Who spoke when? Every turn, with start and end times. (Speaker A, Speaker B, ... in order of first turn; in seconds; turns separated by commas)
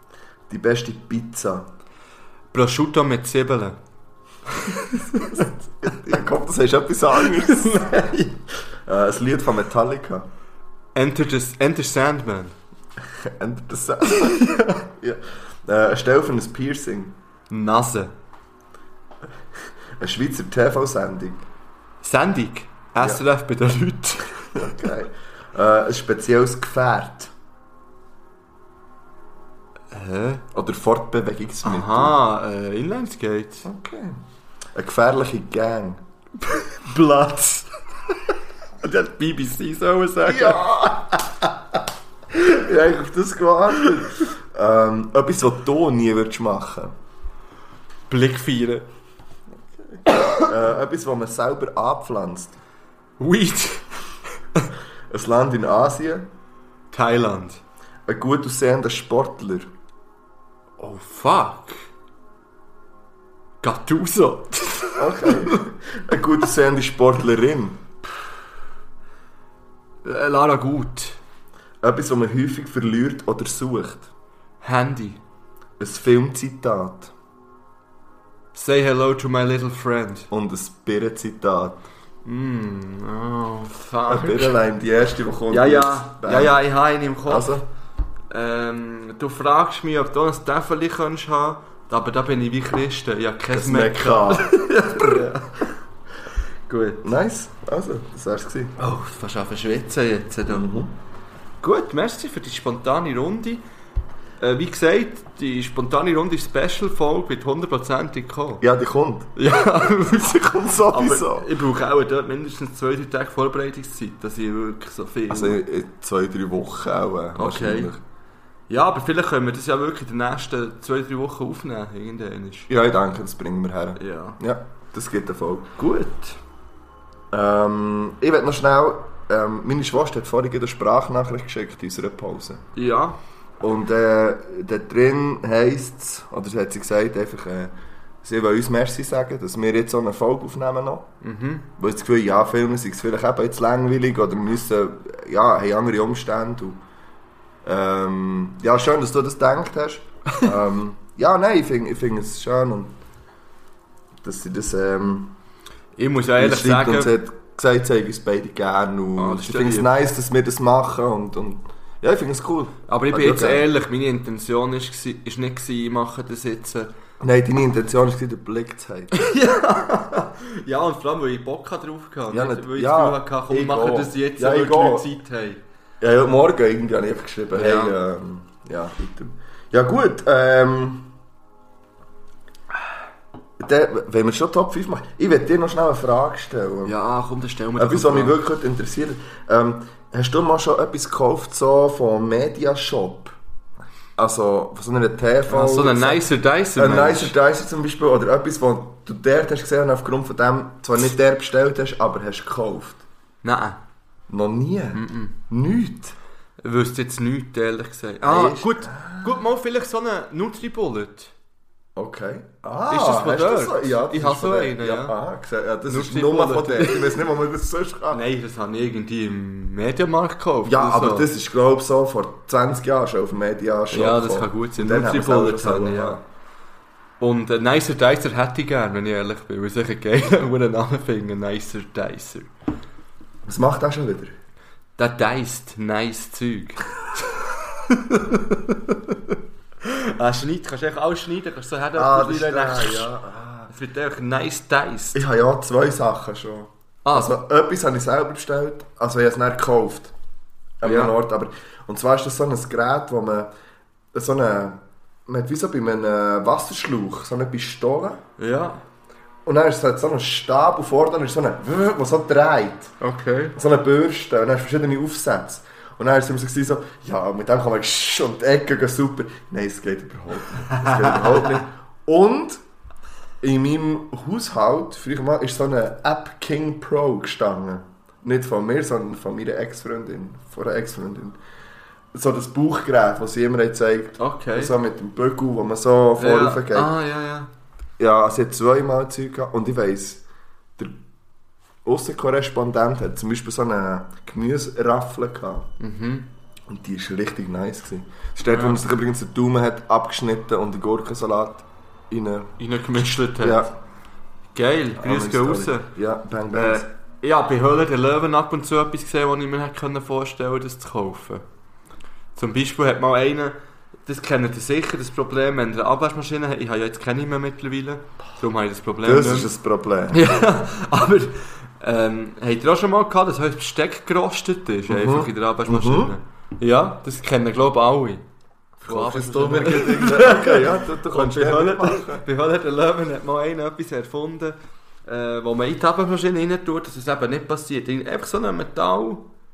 Speaker A: 0.5-1.7, Speaker B: 2.5-3.8, Speaker B: 4.5-5.4, Speaker A: 5.2-8.0, Speaker B: 7.3-8.4, Speaker A: 8.8-10.3, Speaker B: 10.9-12.5, Speaker A: 13.2-17.1, Speaker B: 14.2-14.8, Speaker B: 17.5-18.1, Speaker A: 20.0-21.4, Speaker B: 22.0-24.7, Speaker A: 24.5-27.3, Speaker B: 29.9-30.4, Speaker A: 30.5-32.2, Speaker B: 31.6-33.7, Speaker A: 33.6-34.2, Speaker A: 34.7-36.0, Speaker B: 36.4-37.7, Speaker B: 38.8-40.6, Speaker A: 40.2-41.2, Speaker A: 42.3-46.9, Speaker B: 48.1-48.9, Speaker A: 49.9-52.5, Speaker B: 53.2-53.9, Speaker A: 55.1-56.3, Speaker B: 56.9-57.6, Speaker A: 58.1-59.7, Speaker B: 60.8-61.8, Speaker B: 63.6-65.7, Speaker A: 65.0-67.8, Speaker B: 70.0-71.2, Speaker A: 71.8-74.1, Speaker B: 74.6-75.2, Speaker A: 75.8-77.1, Speaker B: 78.5-80.3, Speaker A: 80.3-81.8, Speaker B: 82.2-84.5, Speaker A: 84.1-86.6, Speaker B: 85.5-87.5, Speaker A: 87.3-87.6, Speaker B: 88.3-95.8, Speaker A: 93.5-94.5, Speaker B: 96.7-97.0, Speaker A: 97.0-98.7, Speaker B: 98.8-100.7, Speaker A: 100.5-100.9, Speaker B: 101.6-103.6, Speaker B: 104.4-108.6, Speaker A: 108.6-109.3, Speaker B: 109.3-115.6, Speaker A: 110.0-111.5, Speaker A: 115.3-118.0, Speaker B: 117.3-117.9, Speaker B: 118.7-122.7, Speaker A: 122.7-125.7, Speaker B: 124.0-124.4, Speaker B: 125.8-126.4, Speaker A: 127.3-132.6, Speaker B: 132.7-133.2, Speaker A: 133.6-141.1, Speaker B: 141.2-141.7, Speaker A: 141.8-146.8, Speaker A: 147.6-152.9, Speaker A: 154.2-155.3, Speaker B: 156.0-157.1, Speaker A: 156.4-163.6, Speaker B: 159.2-159.9, Speaker B: 162.9-166.9, Speaker A: 167.2-169.2, Speaker B: 169.1-175.6, Speaker A: 172.3-175.1, Speaker A: 176.0-181.1, Speaker B: 177.5-177.9, Speaker A: 183.6-186.9, Speaker B: 186.8-188.4, Speaker A: 187.8-193.4, Speaker A: 194.2-203.0, Speaker B: 195.5-197.3, Speaker B: 203.4-203.8, Speaker A: 204.3-206.2, Speaker B: 204.9-205.3, Speaker B: 206.6-211.3, Speaker A: 208.2-209.4, Speaker A: 211.9-218.2, Speaker B: 212.9-215.1, Speaker B: 215.9-217.2, Speaker B: 218.1-221.3, Speaker A: 220.6-226.2, Speaker B: 223.9-226.2, Speaker B: 227.2-232.5, Speaker A: 233.4-234.3, Speaker B: 235.0-243.1, Speaker A: 241.9-243.7, Speaker B: 243.7-245.2, Speaker A: 245.1-250.1, Speaker B: 247.0-247.4, Speaker A: 250.8-253.5, Speaker B: 250.8-251.1, Speaker A: 254.1-258.2, Speaker B: 258.4-258.8, Speaker A: 259.4-262.9, Speaker B: 263.0-263.5, Speaker A: 263.5-272.6, Speaker B: 270.7-271.1, Speaker A: 273.4-281.4, Speaker A: 282.1-286.9, Speaker B: 284.2-284.7, Speaker B: 286.2-287.5, Speaker A: 288.0-290.2, Speaker A: 291.8-295.7, Speaker B: 295.8-296.3, Speaker A: 296.7-302.5, Speaker B: 298.5-298.8, Speaker B: 302.6-303.7, Speaker A: 303.4-303.7, Speaker B: 304.5-305.9, Speaker A: 305.0-306.9, Speaker B: 306.5-311.4, Speaker B: 312.4-313.5, Speaker B: 314.1-319.5, Speaker A: 319.0-320.2, Speaker B: 320.1-328.2, Speaker A: 324.9-326.1, Speaker B: 328.8-339.2, Speaker A: 328.8-332.2